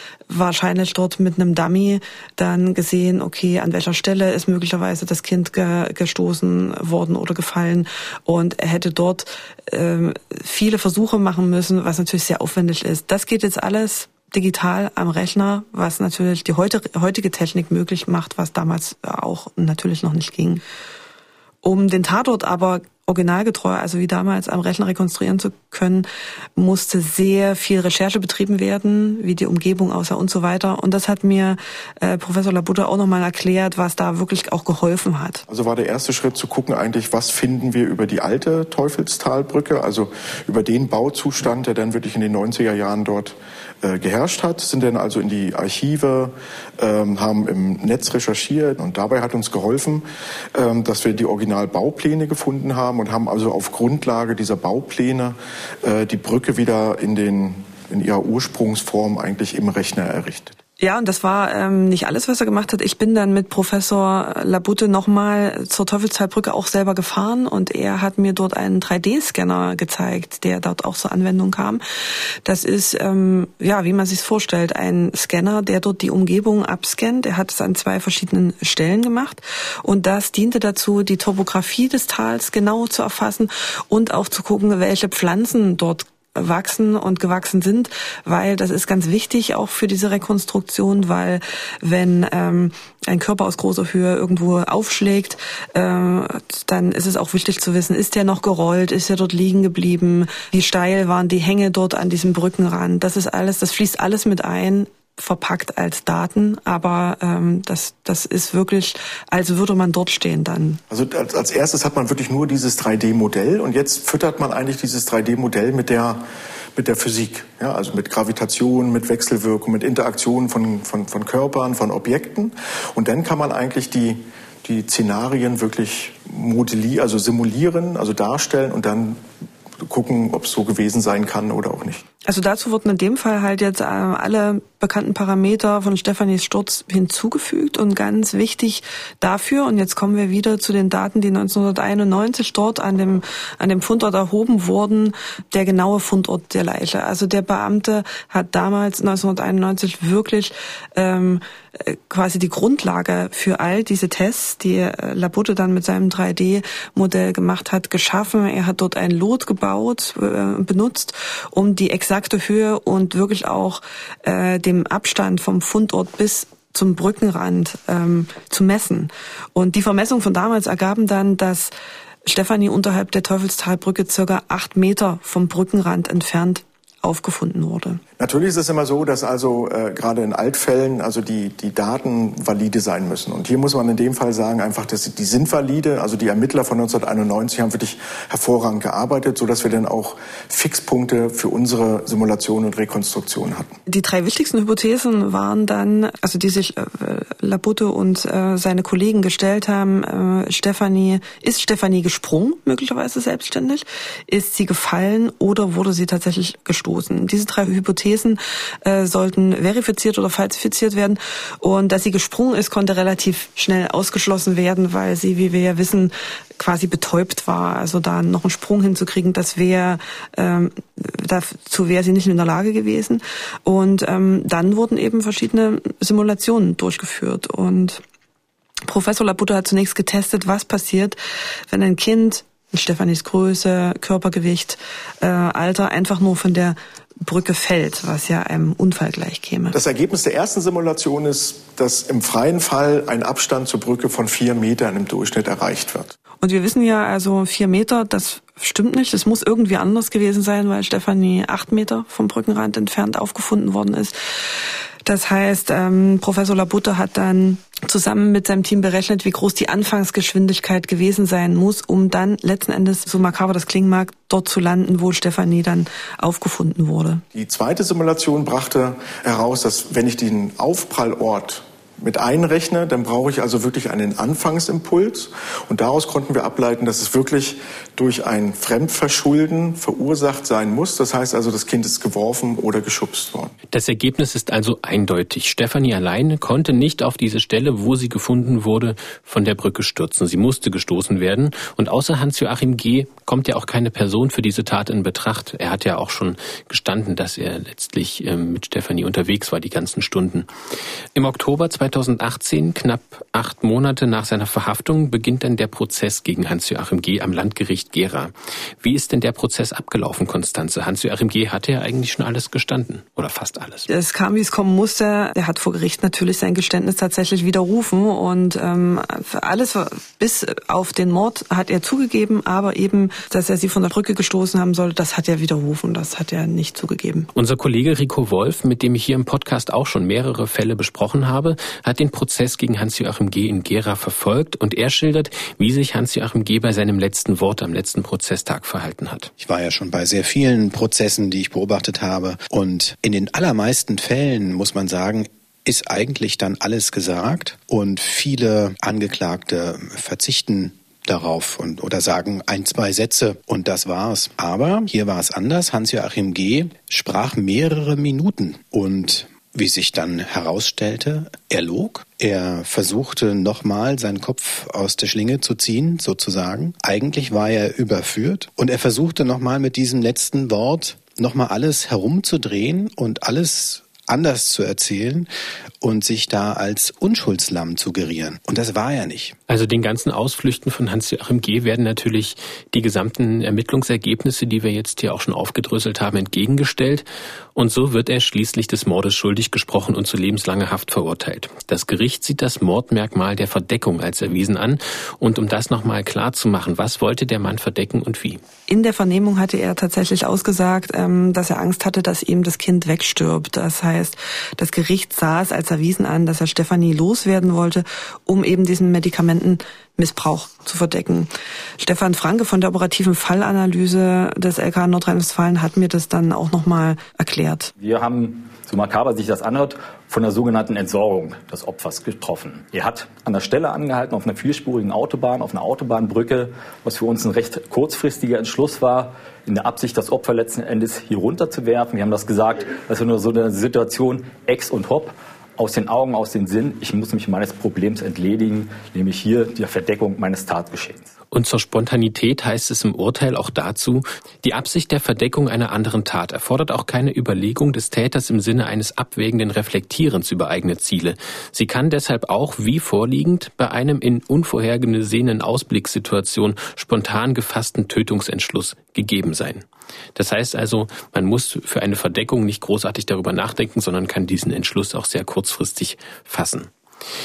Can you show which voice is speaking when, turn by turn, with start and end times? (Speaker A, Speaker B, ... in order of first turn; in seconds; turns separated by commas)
Speaker A: 0.3-20.6, Speaker A: 21.6-35.4, Speaker B: 35.5-60.5, Speaker A: 60.8-71.8, Speaker A: 72.4-110.8, Speaker B: 110.9-116.2, Speaker B: 116.8-129.2, Speaker B: 129.8-132.0, Speaker A: 132.2-171.7, Speaker A: 172.2-178.0, Speaker B: 178.2-193.8, Speaker A: 193.9-228.0, Speaker A: 228.8-231.2, Speaker A: 231.7-239.7, Speaker B: 239.7-246.1, Speaker A: 246.4-267.2, Speaker B: 267.3-283.5, Speaker C: 283.7-300.5, Speaker C: 301.1-313.9, Speaker A: 313.9-327.3, Speaker C: 327.3-339.3, Speaker D: 339.4-375.3, Speaker D: 375.8-379.4, Speaker C: 379.5-398.4, Speaker A: 398.7-417.7, Speaker E: 417.8-441.1, Speaker C: 441.3-459.6, Speaker C: 460.1-466.7